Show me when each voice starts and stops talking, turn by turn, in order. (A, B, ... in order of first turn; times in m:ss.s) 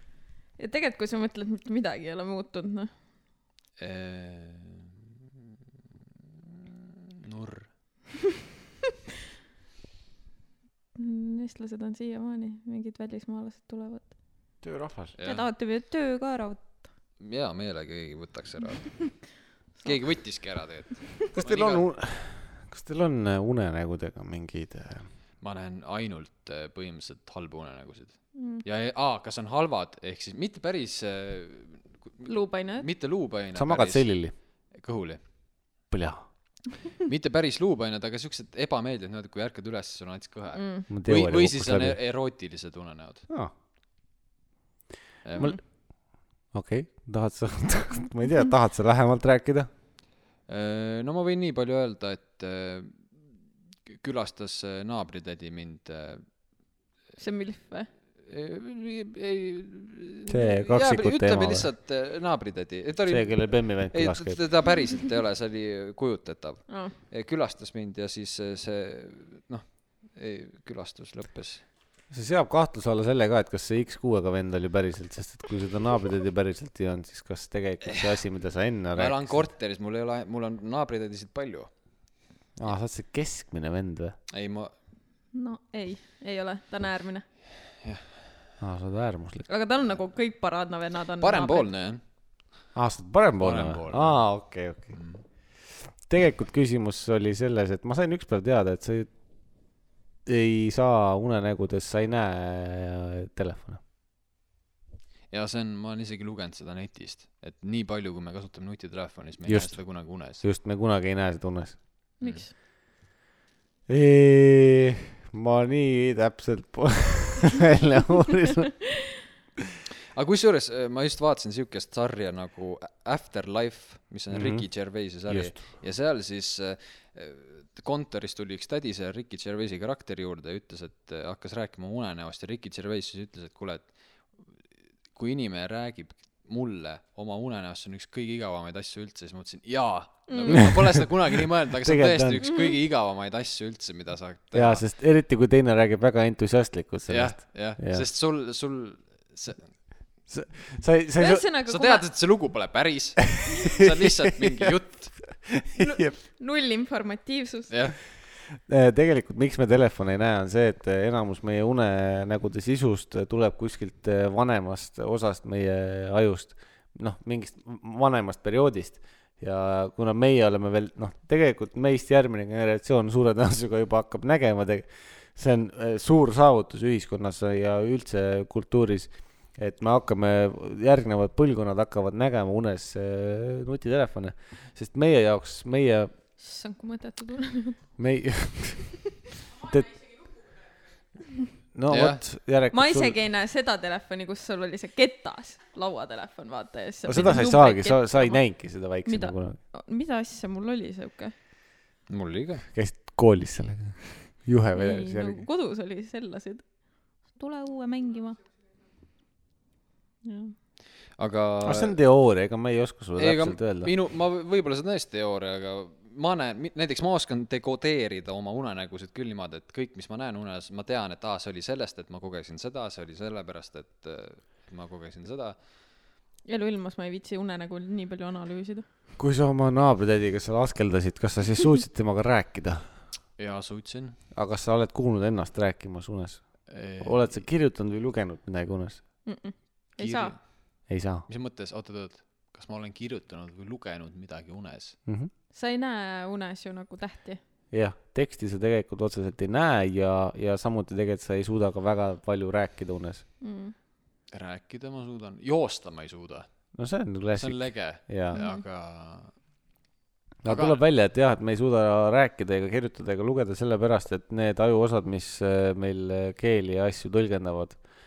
0:00.6-0:02.9 A
0:03.8-0:04.9 B
0:07.2-0:07.7 B
0:11.0-0:14.1 A
0:14.6-0:15.2 C
0:15.2-0:15.4 B
0:15.2-0:16.8 A
0:17.2-0:19.2 B
0:19.8-0:20.0 A
0:19.8-0:21.8 B
0:21.3-0:25.1 C
0:25.4-0:34.0 B
0:28.4-0:28.6 A
0:32.2-0:32.9 A
0:33.5-0:34.3 C
0:34.7-0:35.2 B
0:35.9-0:36.2 C
0:37.0-0:43.2 B
0:40.5-0:40.9 A
0:40.9-0:42.0 C
0:45.2-0:45.6 B
0:46.5-0:49.7 C
0:50.5-0:53.2 B
0:53.9-0:56.2 B
0:57.2-0:57.9 A
0:58.2-1:11.6 B
1:00.3-1:01.7 C
1:03.0-1:04.4 C
1:06.7-1:06.9 A
1:12.1-1:19.5 C
1:18.9-1:21.7 B
1:22.6-1:24.2 C
1:24.3-1:24.7 B
1:25.3-1:27.2 A
1:28.6-1:29.5 C
1:29.5-1:31.7 A
1:31.2-1:32.0 B
1:32.7-1:34.9 C
1:33.4-1:34.3 B
1:34.9-1:35.2 B
1:35.8-1:39.1 C
1:40.2-1:43.8 C
1:45.3-1:50.4 B
1:49.4-1:51.8 C
1:52.2-1:52.5 A
1:53.9-1:58.8 C
2:00.1-2:13.9 B
2:04.3-2:04.7 C
2:05.3-2:05.6 C
2:15.1-2:24.8 B
2:20.3-2:20.7 A
2:20.6-2:21.1 C
2:21.8-2:22.4 C
2:24.5-2:28.0 C
2:27.1-2:29.7 B
2:30.3-2:31.4 C
2:31.2-2:32.0 A
2:31.6-2:35.3 B
2:34.0-2:34.7 C
2:35.4-2:36.2 C
2:35.8-2:37.7 A
2:37.7-2:38.0 B
2:38.4-3:06.1 C
3:06.4-3:07.8 A
3:08.0-3:09.0 C
3:09.5-3:10.0 C
3:11.7-3:13.2 C
3:11.9-3:12.2 B
3:12.7-3:18.5 A
3:17.0-3:19.6 C
3:19.0-3:21.3 A
3:22.1-3:22.6 B
3:22.7-3:25.5 C
3:24.7-3:28.4 A
3:30.2-3:30.5 A
3:31.2-3:32.0 B
3:31.6-3:33.9 C
3:33.2-3:45.6 B
3:46.4-3:48.8 A
3:49.2-3:52.9 C
3:53.4-3:54.2 B
3:54.3-3:59.0 C
3:56.7-3:57.4 B
3:59.2-4:00.4 A
4:00.0-4:05.0 B
4:00.9-4:01.2 C
4:05.0-4:05.3 C
4:05.5-4:07.4 A
4:07.7-4:13.2 C
4:13.4-4:13.7 A
4:14.3-4:16.5 B
4:16.7-4:18.4 C
4:17.4-4:19.4 B
4:18.3-4:18.6 A
4:20.4-4:27.8 C
4:20.4-4:20.8 B